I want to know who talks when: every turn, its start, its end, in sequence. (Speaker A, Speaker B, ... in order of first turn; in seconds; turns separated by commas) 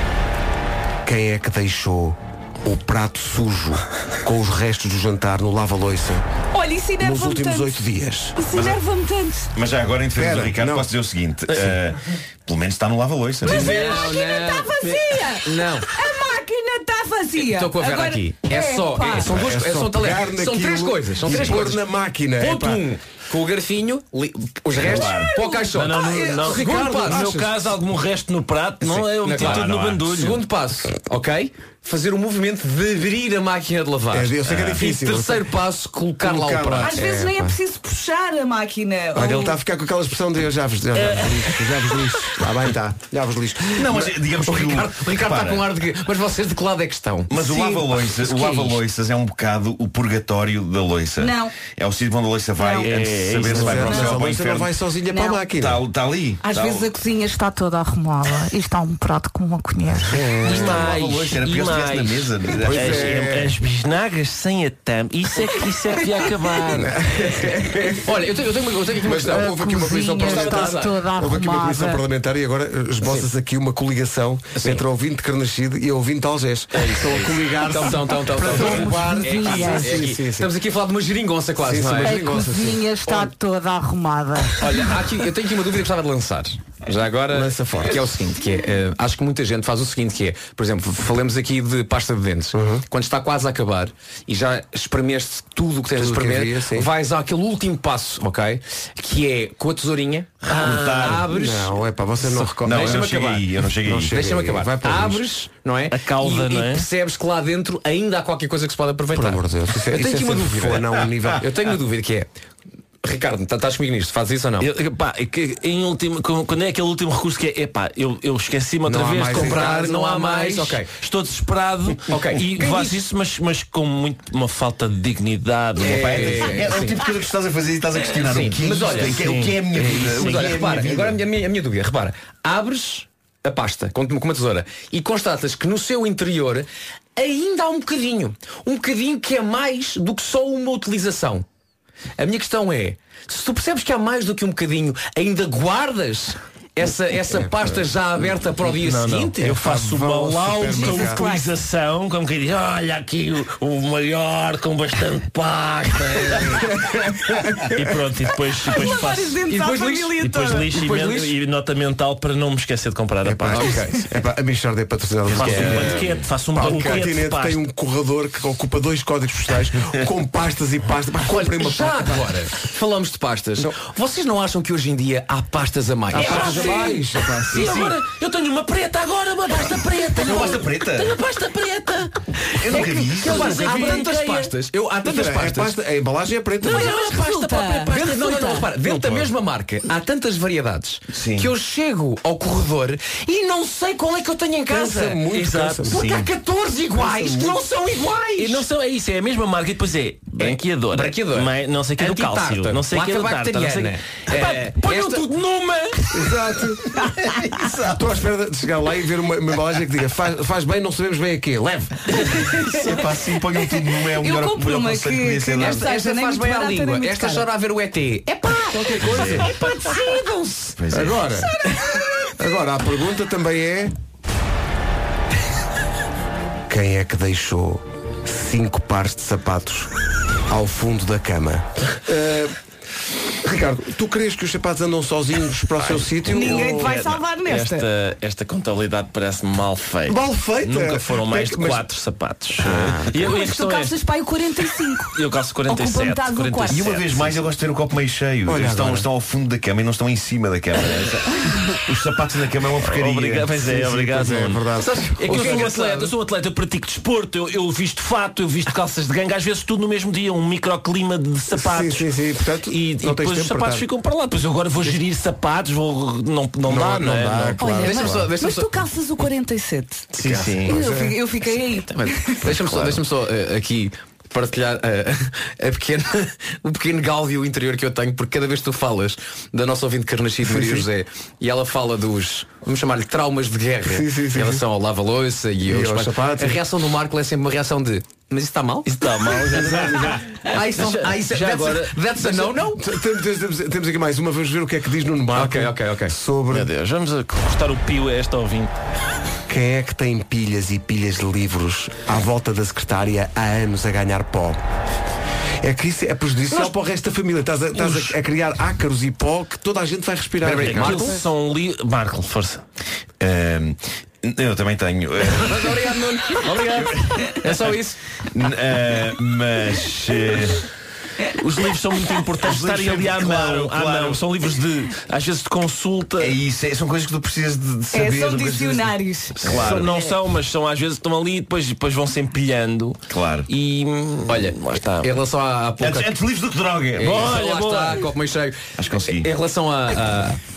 Speaker A: 1.1-6.2, Speaker B: 6.5-9.5, Speaker A: 7.0-8.4, Speaker C: 8.5-8.8, Speaker C: 9.6-13.8, Speaker A: 10.2-10.9, Speaker B: 13.4-19.3, Speaker D: 13.5-15.9, Speaker D: 17.4-27.4, Speaker A: 19.2-22.9, Speaker C: 21.3-21.6, Speaker C: 24.7-25.4, Speaker B: 25.0-26.2, Speaker E: 25.7-30.4, Speaker A: 26.3-27.7, Speaker D: 28.8-37.0, Speaker C: 29.4-30.1, Speaker A: 34.1-35.5, Speaker C: 34.5-34.9, Speaker A: 36.2-37.6, Speaker B: 36.8-39.6, Speaker A: 39.1-44.1, Speaker E: 41.0-42.0, Speaker C: 43.8-45.7, Speaker D: 44.0-48.8, Speaker C: 47.3-54.7, Speaker B: 51.2-51.5, Speaker B: 52.6-52.9, Speaker E: 52.8-54.2, Speaker A: 53.4-55.8, Speaker B: 55.1-55.5, Speaker C: 55.5-57.0, Speaker B: 56.4-57.4, Speaker F: 57.3-60.2, Speaker A: 60.0-60.8, Speaker C: 60.4-63.3, Speaker E: 60.4-66.9, Speaker A: 62.6-63.6, Speaker A: 66.7-68.2, Speaker D: 67.9-71.0, Speaker A: 69.0-80.5, Speaker F: 69.4-72.0, Speaker D: 74.6-74.8, Speaker D: 76.8-82.4, Speaker F: 78.8-80.0, Speaker A: 81.6-82.9, Speaker F: 82.0-85.0, Speaker D: 83.0-83.3, Speaker D: 84.6-103.5, Speaker A: 87.3-88.2, Speaker A: 92.5-92.8, Speaker A: 96.0-96.9, Speaker C: 100.5-101.3, Speaker E: 100.6-101.1, Speaker A: 101.3-103.2, Speaker C: 102.6-104.2, Speaker A: 103.8-105.2, Speaker D: 104.1-112.3, Speaker E: 105.9-106.9, Speaker A: 109.1-111.5, Speaker D: 113.0-114.7, Speaker E: 114.6-126.6, Speaker A: 118.8-120.0, Speaker D: 119.2-120.9, Speaker D: 122.1-123.0, Speaker D: 125.8-127.0, Speaker C: 125.8-131.2, Speaker D: 128.2-141.4, Speaker E: 128.9-129.7, Speaker D: 142.2-149.4, Speaker A: 147.3-147.9, Speaker E: 148.6-156.8, Speaker A: 149.4-151.3, Speaker B: 150.8-151.5, Speaker A: 156.5-157.7, Speaker E: 157.6-159.4, Speaker B: 158.7-160.7, Speaker D: 159.4-161.3, Speaker E: 160.2-163.8, Speaker A: 163.2-172.4, Speaker D: 163.5-164.0, Speaker E: 165.3-167.6, Speaker D: 165.4-166.0, Speaker D: 166.6-167.1, Speaker D: 171.2-176.9, Speaker A: 176.1-178.0, Speaker E: 176.1-182.2, Speaker C: 180.2-181.2, Speaker C: 182.6-183.7, Speaker D: 182.6-185.8, Speaker E: 183.2-184.5, Speaker A: 185.0-186.9, Speaker E: 186.6-188.4, Speaker B: 186.7-188.7, Speaker D: 186.8-195.3, Speaker A: 188.8-189.3, Speaker C: 191.1-191.5, Speaker A: 194.7-196.0, Speaker E: 195.3-196.0, Speaker D: 195.9-198.7, Speaker C: 195.9-196.3, Speaker A: 197.0-197.6, Speaker E: 198.4-206.4, Speaker D: 200.4-205.3, Speaker A: 206.1-207.0, Speaker C: 207.5-208.2, Speaker A: 207.9-212.1, Speaker B: 212.2-213.0, Speaker C: 212.4-215.9, Speaker B: 213.6-217.5, Speaker D: 215.6-220.8, Speaker A: 218.7-219.5, Speaker C: 219.0-219.5, Speaker B: 219.4-220.3, Speaker C: 220.8-221.3, Speaker A: 220.9-221.6, Speaker B: 221.3-222.1, Speaker A: 222.4-223.9, Speaker A: 226.7-229.9, Speaker A: 230.5-232.6, Speaker A: 233.4-237.0, Speaker E: 235.8-244.0, Speaker B: 236.3-237.9, Speaker A: 240.1-241.8, Speaker A: 242.6-243.3, Speaker B: 243.2-246.9, Speaker E: 245.1-247.4, Speaker C: 246.7-253.6, Speaker A: 248.5-249.1, Speaker E: 252.8-254.7, Speaker A: 253.6-255.7, Speaker D: 254.8-256.1, Speaker E: 255.2-262.1, Speaker A: 261.5-263.9, Speaker E: 262.7-267.7, Speaker A: 266.7-268.3, Speaker B: 267.6-270.1, Speaker D: 267.8-268.7, Speaker A: 270.2-271.2, Speaker E: 270.2-270.7, Speaker D: 270.3-270.6, Speaker B: 270.6-272.4, Speaker D: 271.6-288.9, Speaker A: 280.4-280.9, Speaker A: 283.9-284.6, Speaker A: 285.7-286.6, Speaker E: 288.9-292.0, Speaker A: 289.6-290.1, Speaker D: 289.6-292.8, Speaker A: 292.2-296.7, Speaker D: 295.4-296.1, Speaker E: 296.5-298.7, Speaker A: 299.5-304.6, Speaker A: 305.6-311.2, Speaker E: 307.8-308.1, Speaker D: 310.4-311.2, Speaker E: 310.5-312.6, Speaker C: 313.2-317.8, Speaker D: 315.2-318.0, Speaker E: 316.4-316.9, Speaker C: 318.3-320.6, Speaker E: 321.3-326.4, Speaker C: 322.3-324.2, Speaker C: 326.2-330.0, Speaker B: 327.9-330.1, Speaker E: 329.4-335.1, Speaker C: 333.1-333.5, Speaker D: 334.3-336.1, Speaker C: 335.8-337.3, Speaker D: 337.0-340.4, Speaker E: 337.0-338.1, Speaker C: 338.8-339.3